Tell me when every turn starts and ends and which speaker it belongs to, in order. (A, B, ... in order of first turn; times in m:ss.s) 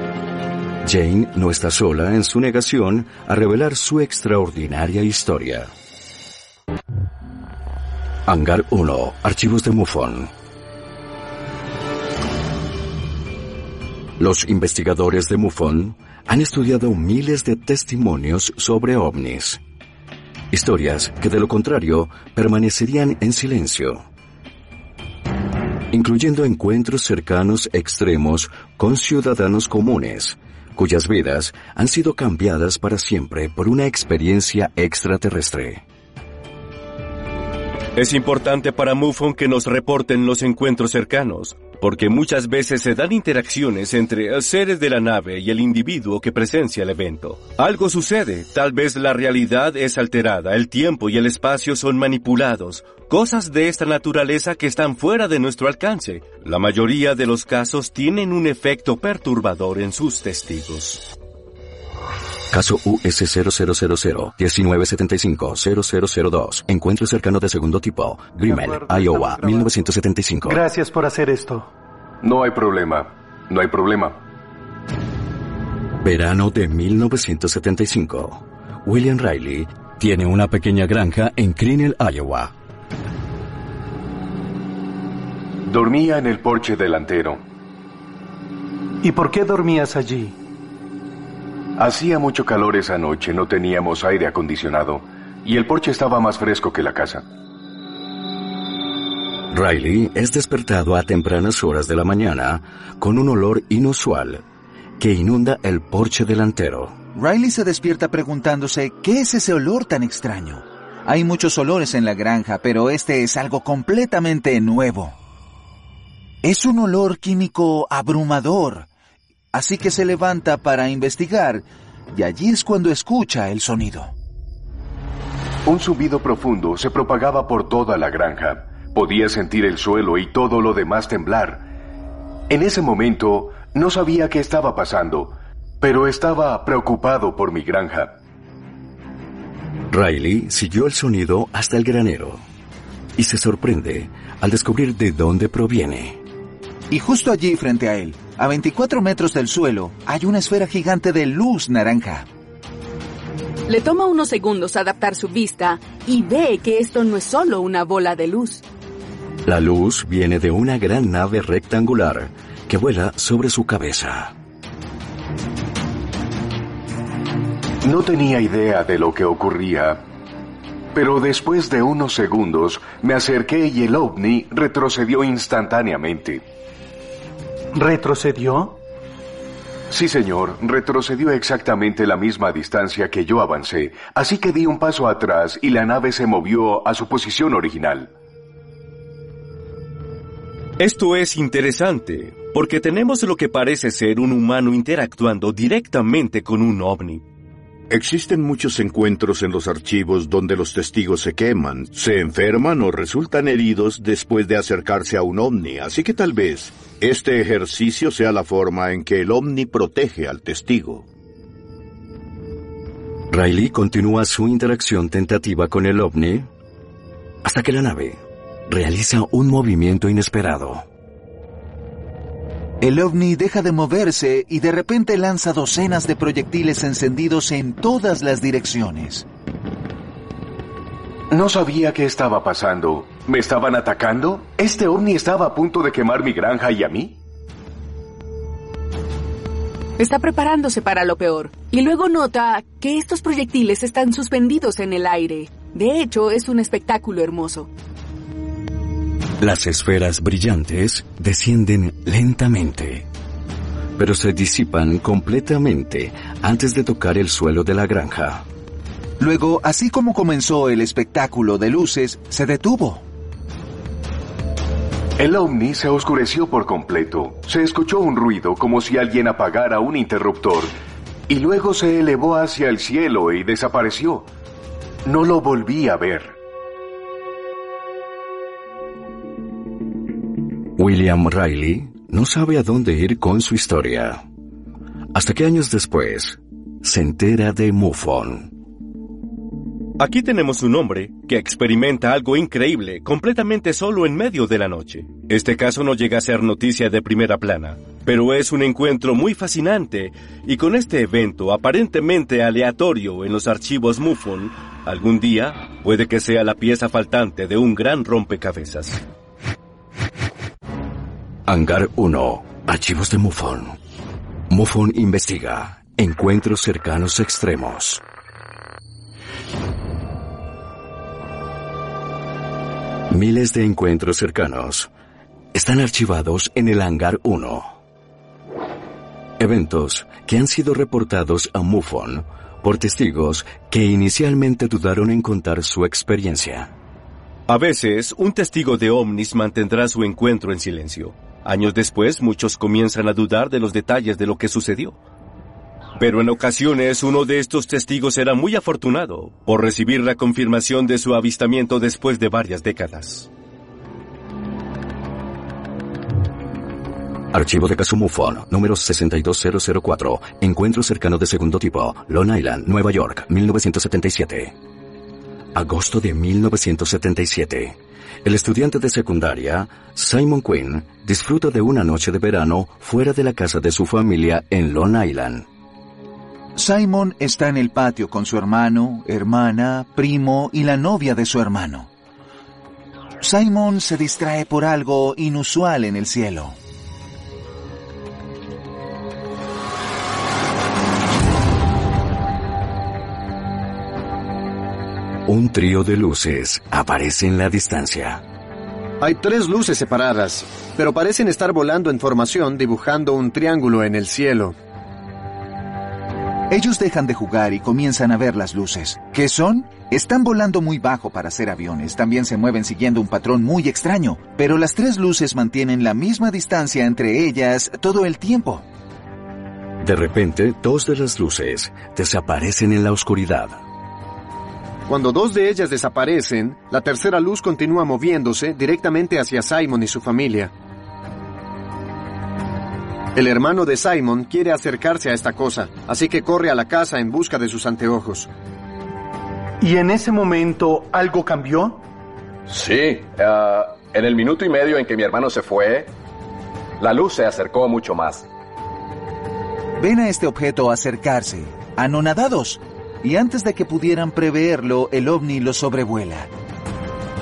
0:00.8-0:05.7 A
0:08.2-0:10.3 A
0:14.2-0:19.6 A
0:20.5-0:24.0 A
0:25.9-0:35.8 A
0:38.0-1:01.0 B
1:02.5-1:10.6 A
1:08.4-1:09.7 C
1:10.4-1:11.7 C
1:12.2-1:14.2 D
1:16.0-1:22.5 A
1:25.6-1:27.4 D
1:29.0-1:30.3 C
1:31.8-1:37.2 D
1:39.5-1:44.4 A
1:45.0-1:47.0 A
1:47.1-1:55.1 E
1:56.4-1:58.9 E
1:59.5-2:04.1 E
2:05.6-2:11.6 D
2:12.5-2:18.2 D
2:19.9-2:22.4 A
2:23.2-2:26.2 A
2:26.9-2:32.3 E
2:33.7-2:38.6 F
2:39.4-2:44.3 A
2:47.8-2:50.0 D
2:50.9-2:56.4 D
2:57.7-2:58.8 C
2:59.9-3:08.1 D
3:10.8-3:17.2 B
3:17.9-3:31.0 G
3:33.3-3:36.5 A
3:37.4-3:40.8 A
3:42.8-3:49.2 E
3:51.3-3:57.2 D
4:00.0-4:07.7 F
4:09.4-4:13.0 A
4:14.0-4:18.4 A
4:19.2-4:23.0 E
4:25.2-4:30.7 D
4:31.3-4:34.3 D
4:35.0-4:36.3 D
4:40.8-4:44.2 A
4:45.1-4:48.5 A
4:50.0-5:09.0 B
5:11.5-5:13.8 A
5:14.5-5:18.0 A
5:23.1-5:24.9 A
5:25.5-5:27.7 A
5:29.4-5:36.7 A
5:37.5-5:45.0 B
5:46.0-5:53.3 B
5:57.3-6:04.5 A
6:05.5-6:15.5 A
6:16.6-6:21.9 E
6:23.2-6:26.6 E
6:35.3-6:38.2 A
6:39.0-6:44.6 H
6:46.5-6:58.6 E
6:59.8-7:03.6 A
7:04.9-7:10.5 H
7:13.1-7:18.3 H
7:19.6-7:21.8 C
7:22.5-7:25.9 I
7:26.8-7:28.3 I
7:29.8-7:36.3 E